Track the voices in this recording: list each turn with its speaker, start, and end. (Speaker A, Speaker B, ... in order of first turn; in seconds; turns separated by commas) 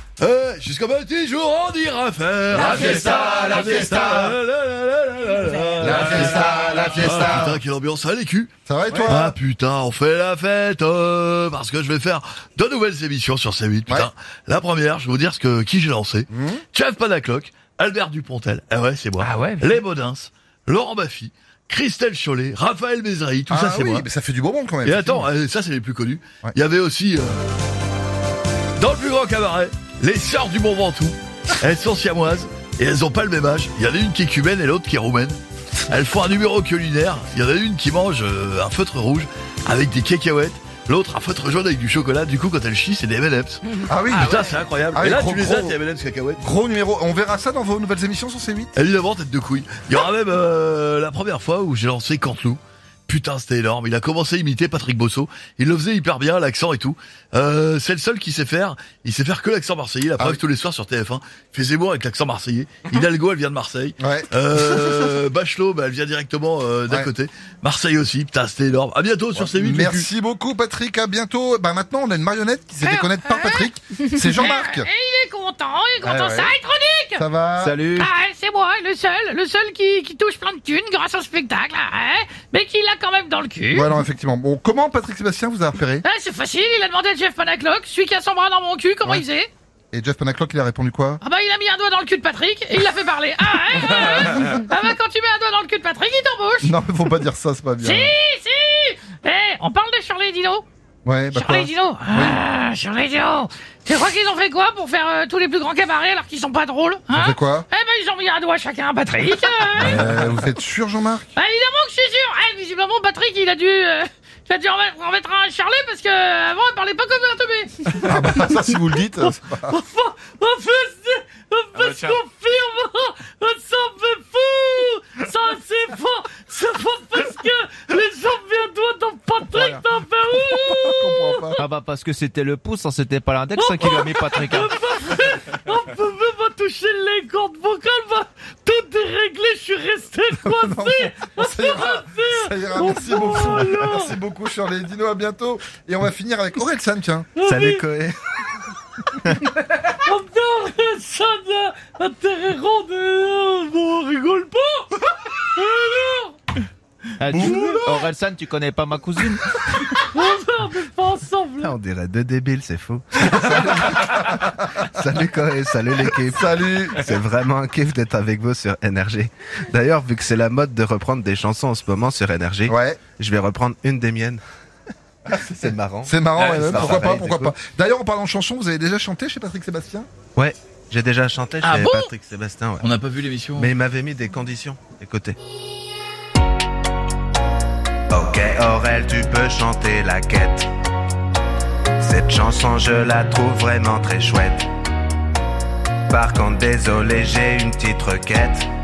Speaker A: 0.2-8.5, Speaker B: 2.5-4.2, Speaker C: 5.8-6.9, Speaker B: 5.8-7.5, Speaker C: 8.7-9.3, Speaker A: 9.0-24.1, Speaker C: 16.3-16.6, Speaker D: 19.2-19.8, Speaker C: 23.5-25.3, Speaker A: 24.8-27.4, Speaker A: 28.8-46.5, Speaker C: 43.9-45.8, Speaker D: 44.1-44.4, Speaker C: 46.4-48.7, Speaker A: 48.7-70.1, Speaker C: 64.0-65.2, Speaker C: 69.3-74.9, Speaker E: 72.8-73.7, Speaker E: 74.3-77.2, Speaker C: 76.0-76.5, Speaker C: 77.2-77.8, Speaker F: 77.5-78.1, Speaker E: 77.9-84.0, Speaker C: 83.7-86.0, Speaker E: 86.0-89.5, Speaker C: 89.9-91.2, Speaker E: 91.2-96.8, Speaker C: 96.6-98.1, Speaker E: 97.8-100.6, Speaker C: 101.0-102.4, Speaker E: 101.3-110.1, Speaker C: 107.1-107.7, Speaker C: 109.8-111.3, Speaker E: 111.3-118.3, Speaker C: 118.0-119.8, Speaker E: 119.2-131.6, Speaker F: 129.5-129.8, Speaker C: 130.3-131.6, Speaker F: 131.6-134.7, Speaker E: 133.5-144.1, Speaker C: 140.5-147.3, Speaker E: 147.4-147.9, Speaker B: 147.4-148.2, Speaker E: 149.8-156.4, Speaker F: 157.2-159.4, Speaker E: 157.3-158.0, Speaker C: 157.3-157.8, Speaker E: 159.8-161.7, Speaker B: 161.6-164.0, Speaker C: 163.2-164.7, Speaker B: 164.7-174.4, Speaker C: 166.0-167.0, Speaker C: 172.7-173.0, Speaker B: 175.3-177.5, Speaker C: 176.0-180.1, Speaker D: 176.3-176.7, Speaker B: 180.3-182.8, Speaker D: 181.6-182.0, Speaker D: 182.8-183.7, Speaker B: 183.6-185.4, Speaker B: 188.1-190.7, Speaker B: 192.0-194.7, Speaker B: 196.1-198.7